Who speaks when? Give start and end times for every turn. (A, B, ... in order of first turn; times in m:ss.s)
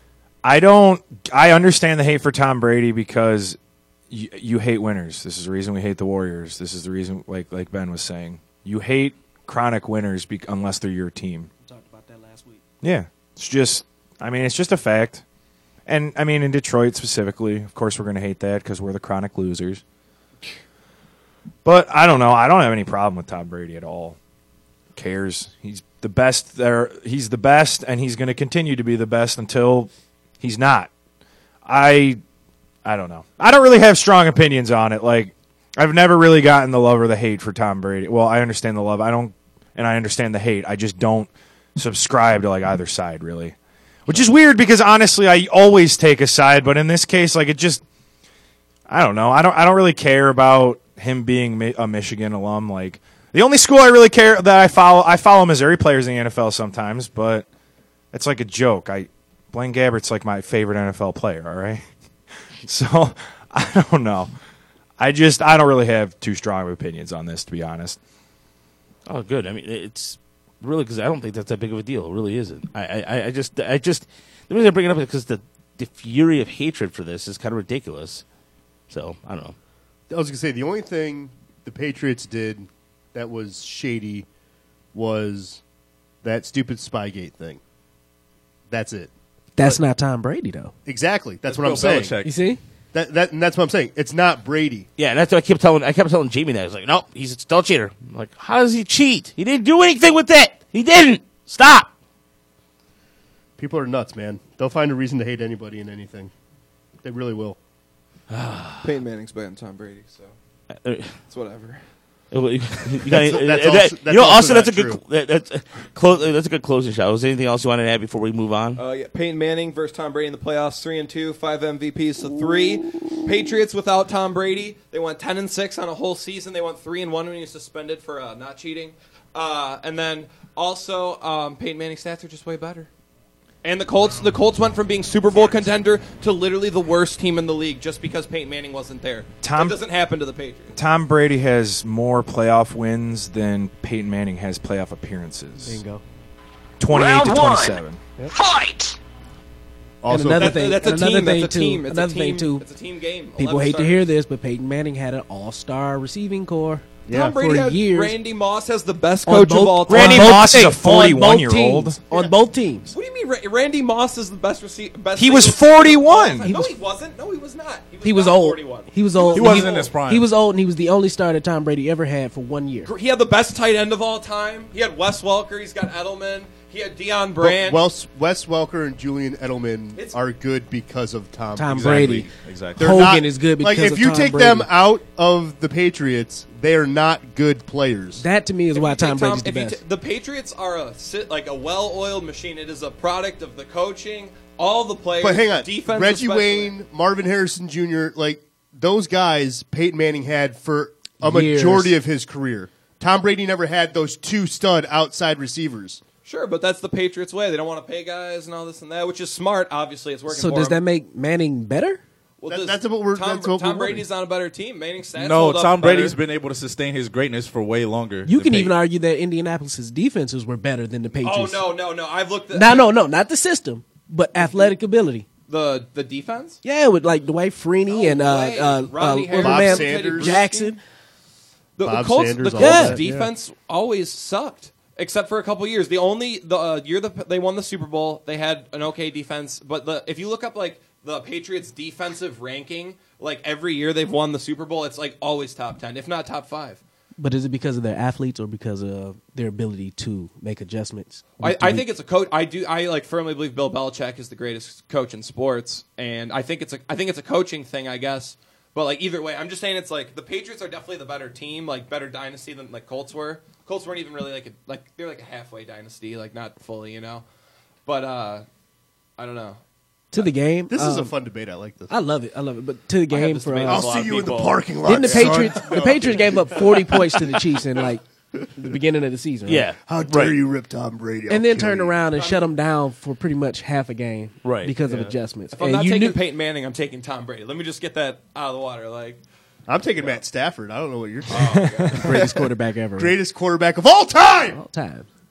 0:00.4-0:03.6 A
0:04.1-0:11.5 A
0:11.6-0:12.6 B
0:12.8-0:15.2 A
0:15.8-0:19.8 A
0:21.6-0:24.2 A
0:24.9-0:30.9 A
0:31.6-0:32.2 A
0:32.8-0:43.6 A
0:44.1-0:47.8 A
0:48.9-0:57.4 A
0:58.1-1:01.8 A
1:02.6-1:04.3 A
1:05.0-1:08.0 A
1:09.1-1:18.2 C
1:18.9-1:19.6 C
1:20.1-1:24.3 D
1:24.9-1:25.6 D
1:26.2-1:27.6 D
1:28.7-1:29.1 D
1:29.6-1:30.7 B
1:30.8-1:32.2 D
1:31.4-1:32.4 E
1:32.2-1:32.6 B
1:32.9-1:34.9 D
1:35.0-1:41.9 C
1:43.6-1:46.3 D
1:47.0-1:47.6 D
1:48.3-1:48.9 C
1:48.8-1:50.3 F
1:50.8-1:51.1 C
1:51.3-1:51.8 F
1:52.3-1:58.8 C
1:53.1-1:55.0 D
1:58.8-2:12.9 F
2:13.6-2:20.7 F
2:19.4-2:19.8 A
2:20.7-2:25.8 A
2:25.6-2:26.0 B
2:26.8-2:28.0 A
2:30.0-2:30.7 D
2:30.1-2:32.6 B
2:30.4-2:34.0 F
2:33.4-2:38.2 B
2:37.1-2:40.5 F
2:39.2-2:42.9 B
2:39.9-2:42.0 A
2:42.9-2:49.9 F
2:45.2-2:46.5 A
2:46.4-2:46.8 B
2:48.0-2:52.9 B
2:49.3-2:50.3 E
2:52.8-2:57.8 F
2:57.4-3:02.1 D
3:01.6-3:04.7 B
3:01.7-3:03.0 E
3:02.8-3:08.2 D
3:08.2-3:09.8 B
3:08.7-3:16.7 F
3:15.2-3:26.0 D
3:21.2-3:22.0 B
3:26.2-3:30.8 F
3:30.3-3:32.0 B
3:32.4-3:36.2 F
3:32.5-3:34.0 D
3:35.2-3:38.8 E
3:38.2-3:41.7 B
3:41.2-3:42.9 F
3:42.5-3:45.2 B
3:44.4-3:44.7 F
3:45.5-3:46.6 F
3:46.6-3:50.8 B
3:47.9-3:50.8 F
3:49.3-3:50.4 D
3:51.8-4:06.8 F
3:51.8-3:53.3 D
3:52.6-3:53.2 B
4:07.2-4:11.9 B
4:11.4-4:27.2 F
4:27.8-4:28.4 F
4:29.2-4:29.6 F
4:30.1-4:31.1 B
4:30.7-4:31.9 D
4:31.9-4:33.9 B
4:33.1-4:35.6 F
4:33.6-4:37.5 D
4:34.8-4:38.0 B
4:38.6-4:39.7 B
4:39.4-4:40.4 C
4:39.8-4:42.0 D
4:41.3-4:46.2 B
4:42.2-4:42.5 F
4:44.4-4:45.1 C
4:45.5-4:49.2 F
4:49.7-4:52.4 D
4:51.3-4:52.2 F
4:51.9-4:53.2 B
4:53.0-4:54.6 D
4:54.5-4:55.1 B